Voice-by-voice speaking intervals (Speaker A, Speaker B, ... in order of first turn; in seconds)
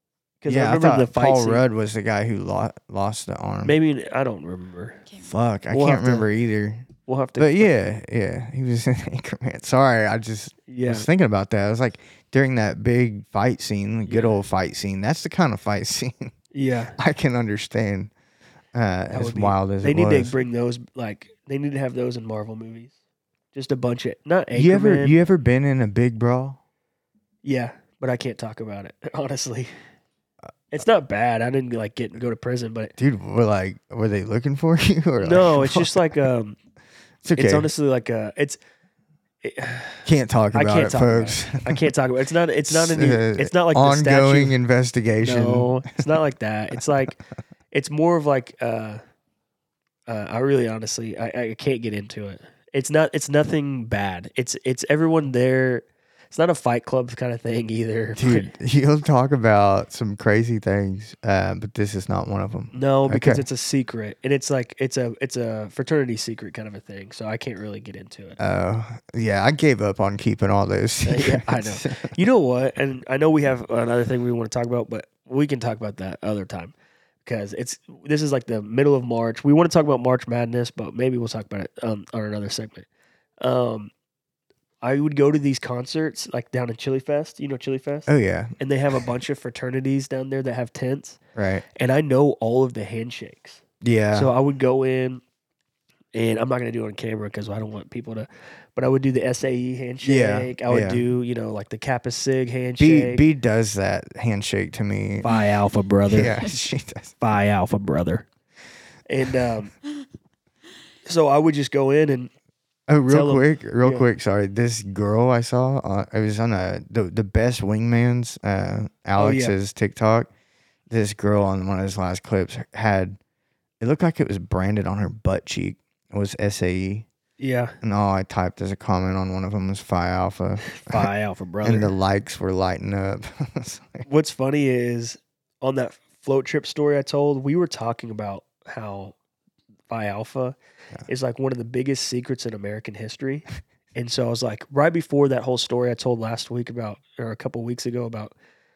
Speaker A: 0.4-1.6, 3.6-5.1, 5.7-6.3, 7.0-7.7, 10.7-11.1, 14.1-14.3, 16.5-17.0, 19.1-22.9, 23.5-25.1, 27.4-29.7, 30.7-32.9, 35.2-36.6, 37.3-38.6, 39.4-44.6, 45.2-47.2, 47.7-49.0, 50.1-58.5, 62.7-68.4, 71.0-82.9, 83.4-83.9, 84.8-91.2, 91.8-95.2, 96.1-103.2, 105.2-106.3, 107.2-108.3, 109.1-109.7, 111.0-112.3, 113.1-114.1, 119.2-119.5, 127.4-127.8, 130.7-131.9, 134.0-139.1, 139.9-140.6, 141.1-148.3
Speaker B: 0.5-3.8, 5.2-16.3, 17.0-18.1, 18.7-20.3, 24.5-26.6, 33.0-36.1, 37.2-37.7, 40.0-41.8, 42.7-45.9, 58.2-63.4, 68.4-72.1, 88.1-88.5, 91.3-91.6, 93.8-94.3, 100.0-101.0, 102.8-105.3, 106.1-107.2, 112.9-120.3, 120.9-123.2, 123.8-127.1, 127.8-131.1, 131.6-134.1